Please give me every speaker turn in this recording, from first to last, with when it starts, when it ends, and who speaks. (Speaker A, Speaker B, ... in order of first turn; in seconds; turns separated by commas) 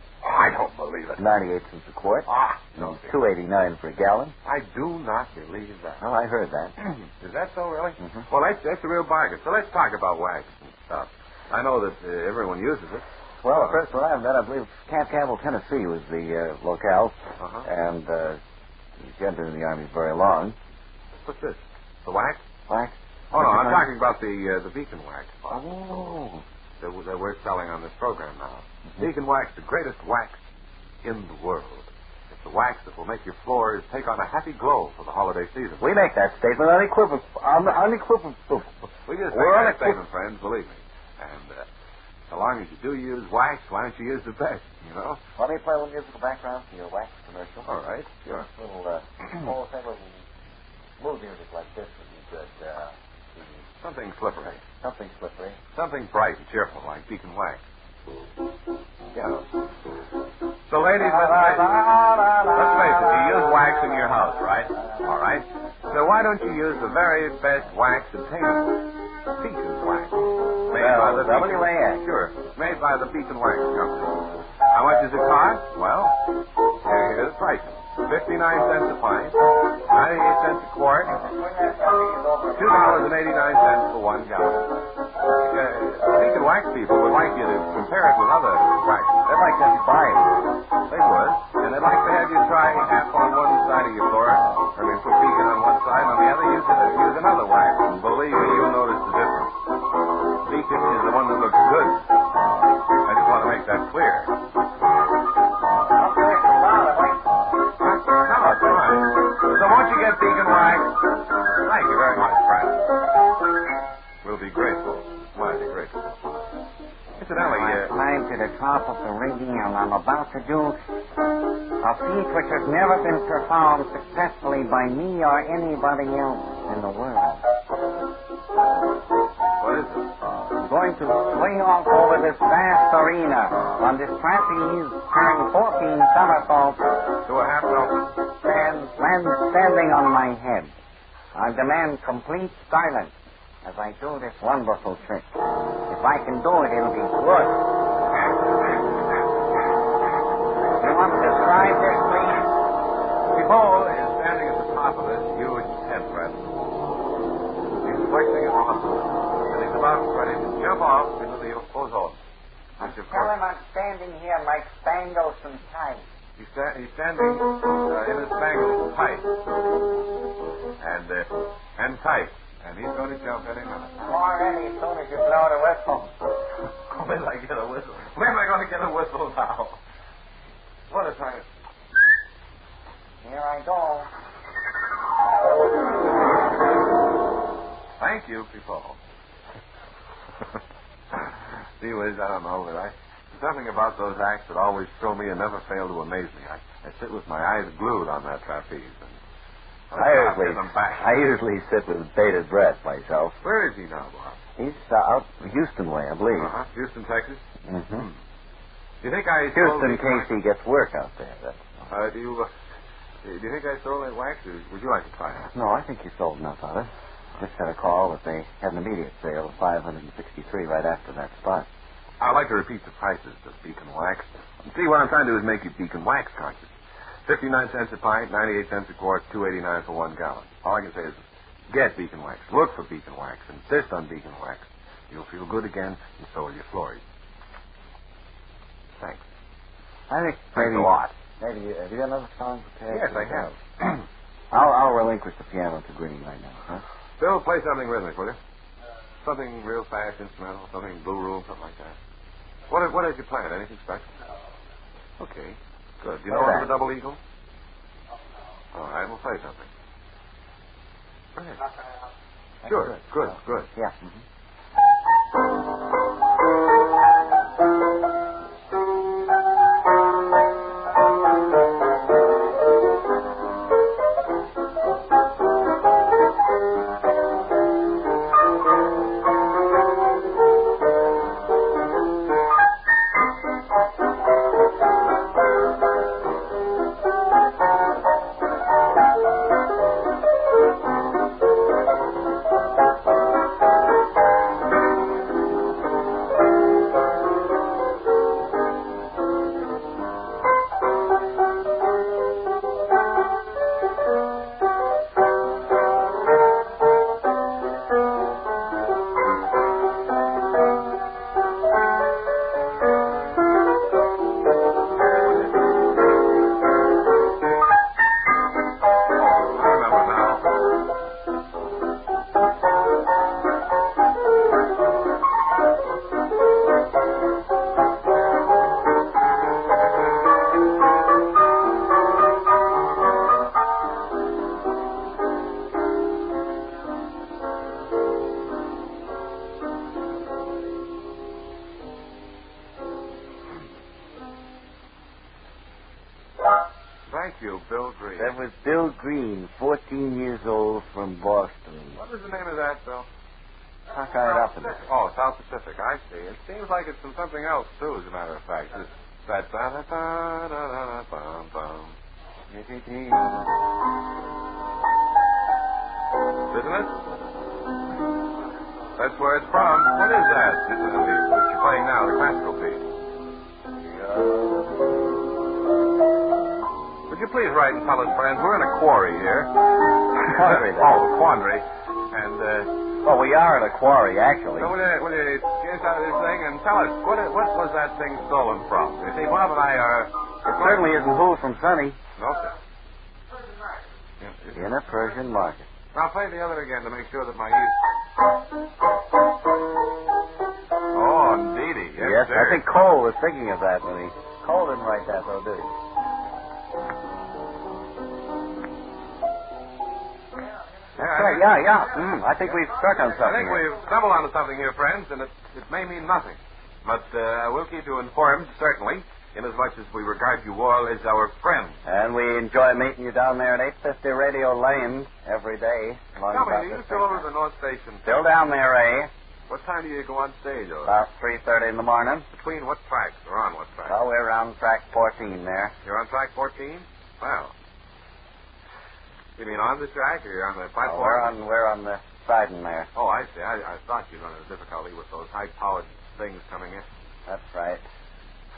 Speaker A: 0.2-1.3, Speaker B: 1.2-4.3, Speaker A: 2.2-3.2, Speaker A: 4.4-6.0, Speaker B: 6.0-6.8, Speaker A: 6.8-13.8, Speaker B: 8.0-8.2, Speaker B: 13.4-18.4, Speaker A: 17.4-17.7, Speaker B: 19.0-20.6, Speaker A: 21.1-22.4, Speaker B: 22.7-23.9, Speaker A: 23.3-26.1, Speaker B: 25.5-26.4, Speaker A: 26.8-30.4, Speaker A: 31.0-35.9, Speaker B: 35.8-38.8, Speaker A: 39.1-41.7, Speaker B: 39.3-40.0, Speaker A: 42.3-45.2, Speaker B: 45.4-47.8, Speaker A: 47.6-48.5, Speaker B: 48.4-50.2, Speaker B: 51.0-53.5, Speaker A: 53.8-54.6, Speaker B: 54.8-55.6, Speaker A: 55.7-57.6, Speaker A: 59.1-59.5, Speaker A: 60.7-61.9, Speaker B: 61.0-64.2, Speaker A: 62.5-76.2, Speaker B: 70.7-72.0, Speaker A: 76.8-81.2, Speaker B: 81.2-83.1, Speaker A: 82.5-84.7, Speaker A: 85.3-89.3, Speaker B: 89.3-90.5, Speaker A: 90.8-99.5, Speaker A: 100.4-102.1, Speaker A: 103.0-104.3, Speaker B: 105.9-107.2, Speaker A: 107.8-112.8, Speaker A: 114.2-116.4, Speaker A: 117.2-117.9, Speaker B: 117.3-120.8, Speaker B: 121.8-127.4, Speaker A: 129.6-130.1, Speaker B: 130.6-136.9, Speaker A: 137.2-138.2, Speaker B: 138.4-140.7, Speaker B: 141.3-143.1, Speaker B: 143.6-145.3, Speaker B: 145.9-147.7, Speaker B: 150.8-152.5, Speaker A: 153.2-156.5, Speaker A: 157.8-162.2, Speaker A: 162.8-163.3, Speaker B: 162.8-166.0, Speaker A: 166.4-169.3, Speaker A: 170.8-174.0, Speaker B: 174.0-176.2, Speaker A: 176.9-179.8, Speaker A: 180.9-181.4, Speaker B: 183.2-184.1, Speaker A: 188.0-189.0, Speaker A: 191.8-199.2, Speaker A: 199.9-201.2, Speaker B: 199.9-203.4, Speaker A: 203.4-204.4, Speaker B: 204.6-206.5, Speaker A: 206.4-207.4, Speaker B: 207.6-208.1, Speaker A: 209.0-210.3, Speaker B: 209.5-211.8, Speaker A: 211.9-212.5, Speaker A: 213.2-215.5, Speaker B: 215.5-221.7, Speaker A: 222.2-226.7, Speaker A: 227.2-237.0, Speaker A: 239.0-239.2, Speaker B: 240.1-243.5, Speaker A: 240.5-241.1, Speaker A: 242.9-244.0, Speaker B: 244.5-246.8, Speaker A: 247.2-248.4, Speaker A: 249.2-252.0, Speaker A: 252.7-254.1, Speaker A: 255.2-257.2, Speaker B: 256.3-256.7, Speaker A: 258.7-259.7, Speaker A: 261.3-261.6, Speaker A: 262.6-263.7, Speaker B: 262.6-264.2, Speaker A: 319.1-320.6, Speaker A: 347.1-348.3, Speaker B: 348.2-352.0, Speaker A: 351.9-353.1, Speaker B: 353.9-354.8, Speaker A: 354.7-361.9, Speaker B: 362.5-363.5, Speaker A: 366.5-367.0, Speaker A: 369.0-372.9, Speaker A: 377.1-382.7, Speaker B: 380.2-381.0, Speaker B: 383.0-384.7, Speaker A: 384.6-391.1, Speaker B: 390.4-392.0, Speaker A: 392.2-392.6, Speaker A: 394.2-394.7, Speaker B: 394.5-395.6, Speaker A: 395.9-397.8, Speaker A: 400.9-402.6, Speaker B: 402.0-405.7, Speaker A: 410.9-411.6, Speaker B: 411.0-413.6, Speaker A: 413.1-421.8, Speaker B: 421.8-427.2, Speaker A: 426.3-428.2, Speaker B: 428.0-429.1, Speaker A: 429.5-430.9, Speaker B: 430.8-432.3, Speaker A: 432.3-434.0, Speaker B: 433.9-435.7, Speaker A: 435.8-437.5, Speaker A: 439.4-441.3, Speaker B: 440.8-442.9, Speaker A: 442.9-446.9, Speaker B: 447.3-447.8